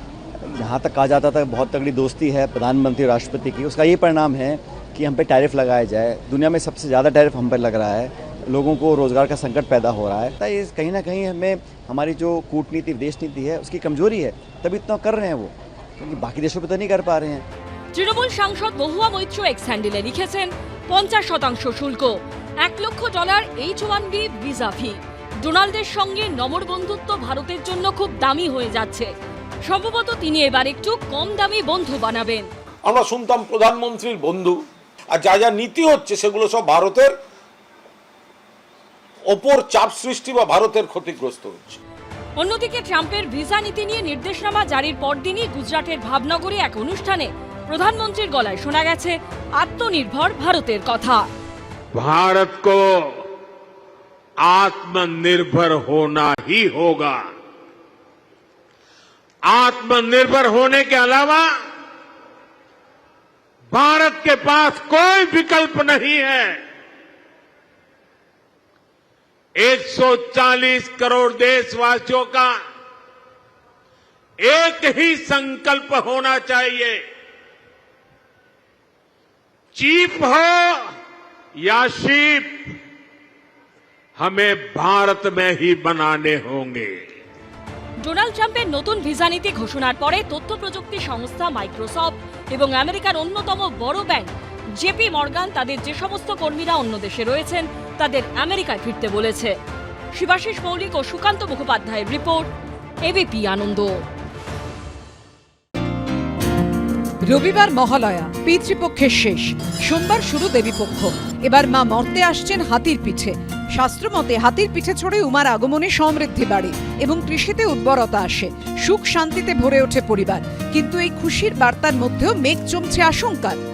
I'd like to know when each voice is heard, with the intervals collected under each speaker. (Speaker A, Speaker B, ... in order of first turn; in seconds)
Speaker A: 0.4-17.5
Speaker B: 17.9-29.1, 29.6-32.5, 42.4-51.3, 88.0-99.5, 100.1-102.5, 103.0-104.0
Speaker C: 32.9-34.5, 35.2-37.1, 39.4-41.7
Speaker D: 51.9-53.0, 54.4-57.2, 59.5-61.5, 63.7-66.6, 69.6-72.6, 74.4-77.0, 79.8-80.8, 81.6-82.6, 84.2-86.9
Speaker E: 107.3-123.6